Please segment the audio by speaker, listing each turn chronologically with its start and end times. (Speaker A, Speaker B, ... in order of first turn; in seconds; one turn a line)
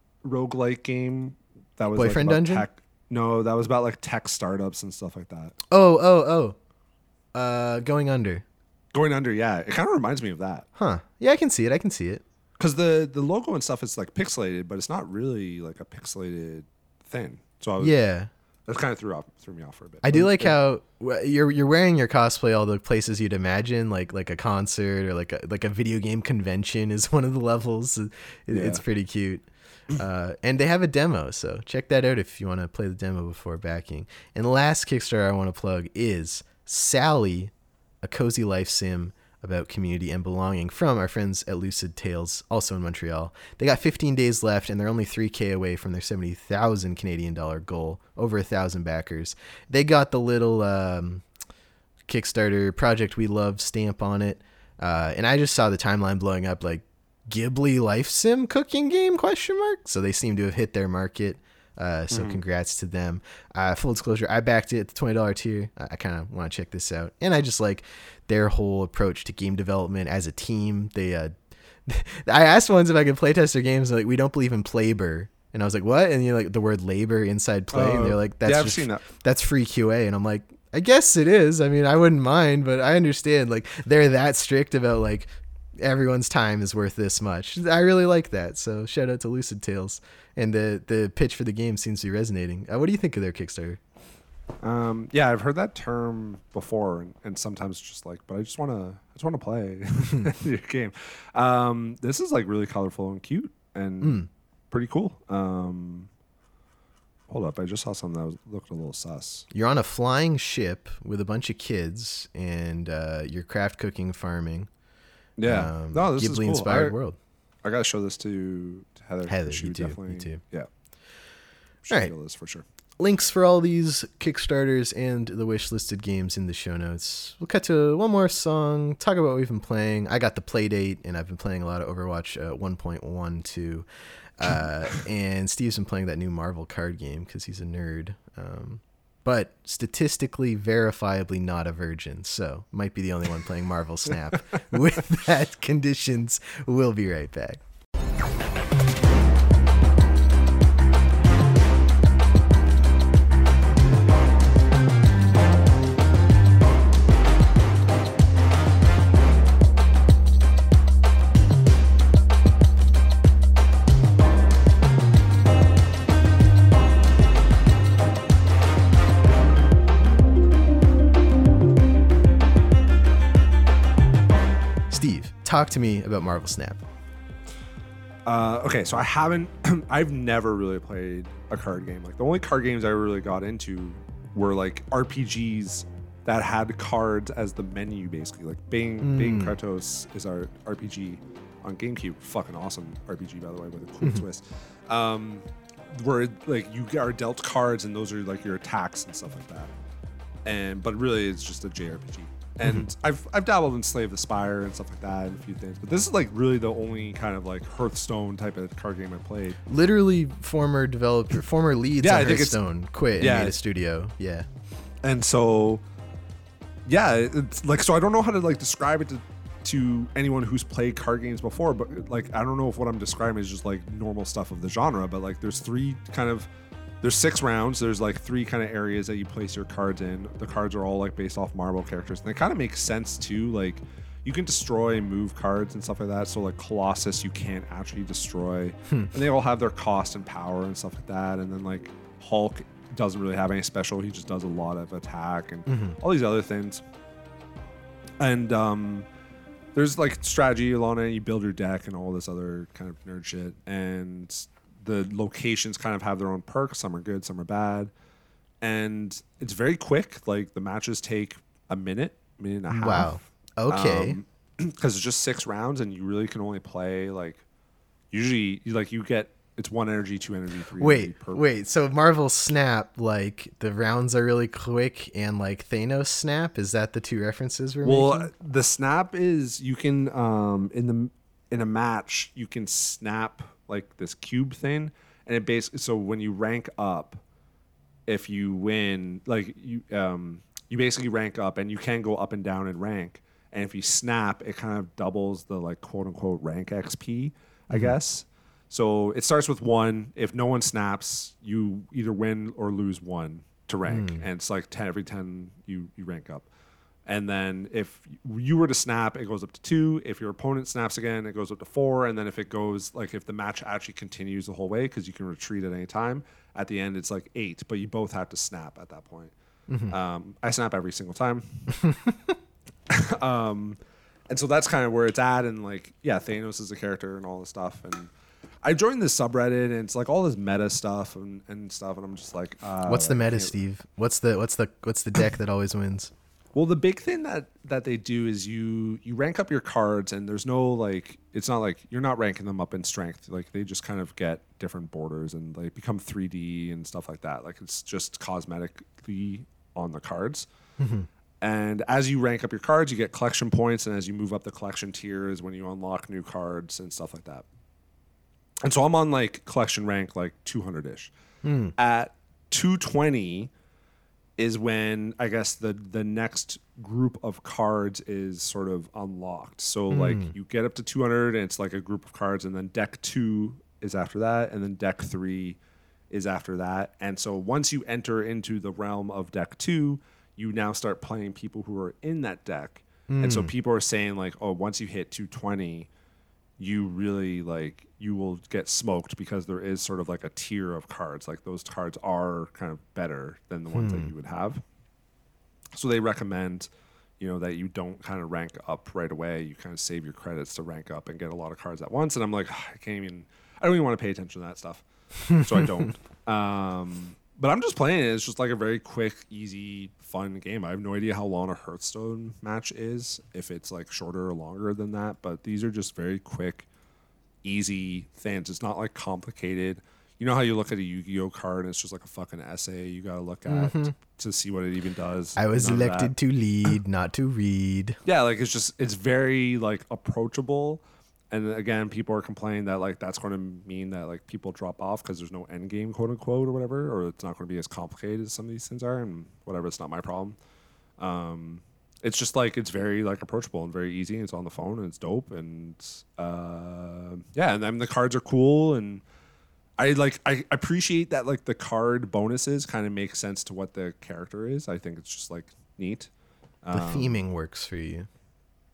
Speaker A: 0.2-5.5
Speaker B: 1.9-2.6
Speaker B: 5.7-6.5
Speaker B: 7.3-8.4
Speaker A: 8.9-10.7
Speaker B: 10.8-12.2
Speaker A: 12.6-17.9
Speaker B: 17.8-18.3
Speaker A: 18.6-20.5
Speaker B: 20.0-51.2
Speaker A: 28.5-28.8
Speaker B: 52.1-71.3
Speaker A: 62.1-62.4
Speaker B: 71.8-85.3
Speaker A: 77.7-79.0
Speaker B: 85.8-93.8
Speaker A: 94.6-106.1
Speaker B: 104.0-104.3
Speaker A: 107.3-109.5
Speaker B: 109.5-114.7
Speaker A: 115.4-116.9
Speaker B: 115.5-117.2
Speaker A: 117.6-120.7
Speaker B: 119.2-120.4
Speaker A: 121.8-122.6
Speaker B: 123.0-133.9
Speaker B: 134.4-147.6
Speaker B: 174.9-176.8
Speaker A: 178.2-199.7
Speaker B: 189.0-189.6
Speaker A: 200.4-209.6
Speaker B: 209.7-214.4
Speaker A: 212.0-212.6
Speaker A: 213.2-213.6
Speaker A: 215.0-215.8
Speaker A: 216.8-226.5
Speaker A: 227.0-246.8
Speaker B: 238.9-239.1
Speaker B: 245.7-246.0
Speaker A: 248.2-249.1
Speaker A: 249.7-257.9
Speaker A: 258.6-263.2
Speaker B: 262.7-264.2
Speaker A: 263.7-267.4
Speaker A: 268.1-271.4
Speaker B: 270.8-278.3
Speaker A: 277.8-287.2
Speaker A: 288.1-306.5
Speaker B: 303.9-304.2
Speaker A: 307.1-319.3
Speaker B: 319.7-319.9
Speaker A: 319.9-321.7
Speaker B: 321.8-322.1
Speaker A: 322.9-333.6
Speaker B: 332.9-336.1
Speaker A: 336.5-350.5
Speaker B: 350.8-351.1
Speaker A: 351.4-357.4
Speaker A: 358.6-361.1
Speaker B: 361.4-361.7
Speaker A: 361.8-363.5
Speaker A: 364.4-375.6
Speaker B: 369.9-370.3
Speaker A: 376.1-385.9
Speaker B: 383.1-383.5
Speaker A: 386.6-394.6
Speaker B: 393.7-394.1
Speaker A: 395.7-416.7
Speaker B: 405.3-405.9
Speaker A: 417.4-426.1
Speaker B: 423.4-423.9
Speaker B: 425.4-428.0
Speaker A: 428.0-440.4
Speaker A: 441.0-449.0
Speaker A: 449.8-456.1
Speaker A: 456.6-457.2
Speaker B: 456.7-458.1